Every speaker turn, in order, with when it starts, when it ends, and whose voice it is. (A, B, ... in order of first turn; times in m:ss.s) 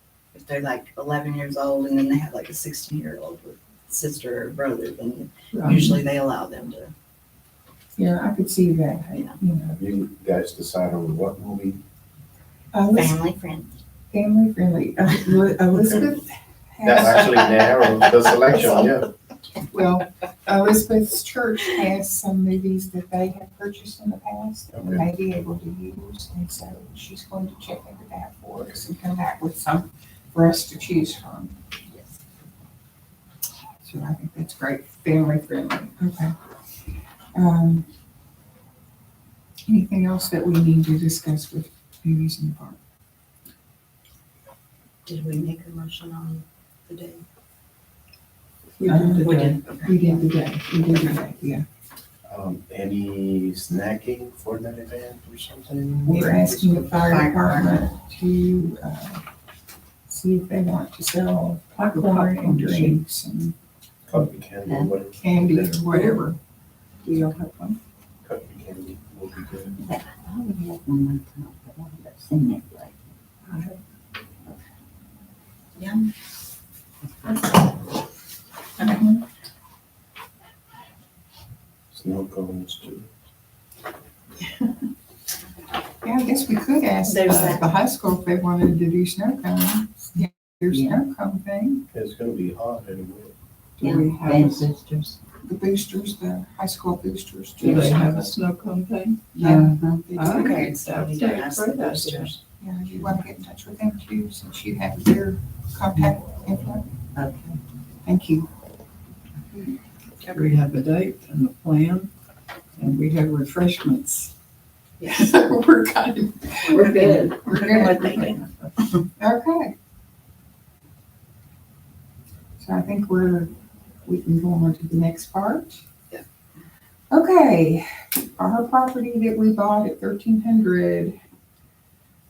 0:00.3-0:06.9 A
0:05.5-0:05.9 B
0:08.0-0:09.8 C
0:09.1-0:09.4 A
0:09.7-0:11.8 D
0:12.7-0:13.2 C
0:12.9-0:13.7 A
0:14.1-0:17.5 C
0:16.8-0:19.1 D
0:19.7-0:31.5 C
0:24.7-0:25.0 D
0:31.9-0:32.2 A
0:33.8-0:36.3 C
0:37.3-0:37.8 C
0:39.7-0:42.8 C
0:45.0-0:47.2 A
0:48.8-0:49.6 B
0:48.8-0:49.3 C
0:49.0-0:50.3 A
0:49.8-0:51.6 C
0:52.2-0:56.8 D
0:56.0-0:59.2 C
0:56.9-0:57.9 A
1:00.1-1:03.5 C
1:01.7-1:03.0 B
1:04.1-1:05.9 D
1:04.6-1:04.9 E
1:05.1-1:06.4 C
1:07.0-1:07.8 C
1:08.2-1:09.8 D
1:09.8-1:12.9 E
1:13.5-1:13.8 C
1:15.8-1:16.1 A
1:18.8-1:19.0 A
1:18.8-1:19.2 C
1:21.9-1:23.1 D
1:26.0-1:31.8 C
1:27.0-1:27.6 A
1:30.7-1:31.0 E
1:31.9-1:33.3 D
1:33.8-1:34.7 C
1:33.8-1:35.2 E
1:35.4-1:38.3 C
1:37.6-1:39.5 B
1:39.3-1:40.7 C
1:39.4-1:40.1 E
1:40.1-1:42.3 B
1:40.2-1:42.4 A
1:42.6-1:46.8 C
1:47.1-1:47.6 E
1:48.0-1:48.5 C
1:50.3-1:52.1 B
1:52.8-1:54.3 B
1:55.0-1:55.3 A
1:55.0-1:58.4 C
1:56.7-1:59.0 A
1:56.8-1:57.6 E
1:59.2-1:59.7 C
2:02.6-2:03.5 C
2:04.0-2:05.8 C
2:07.1-2:11.2 C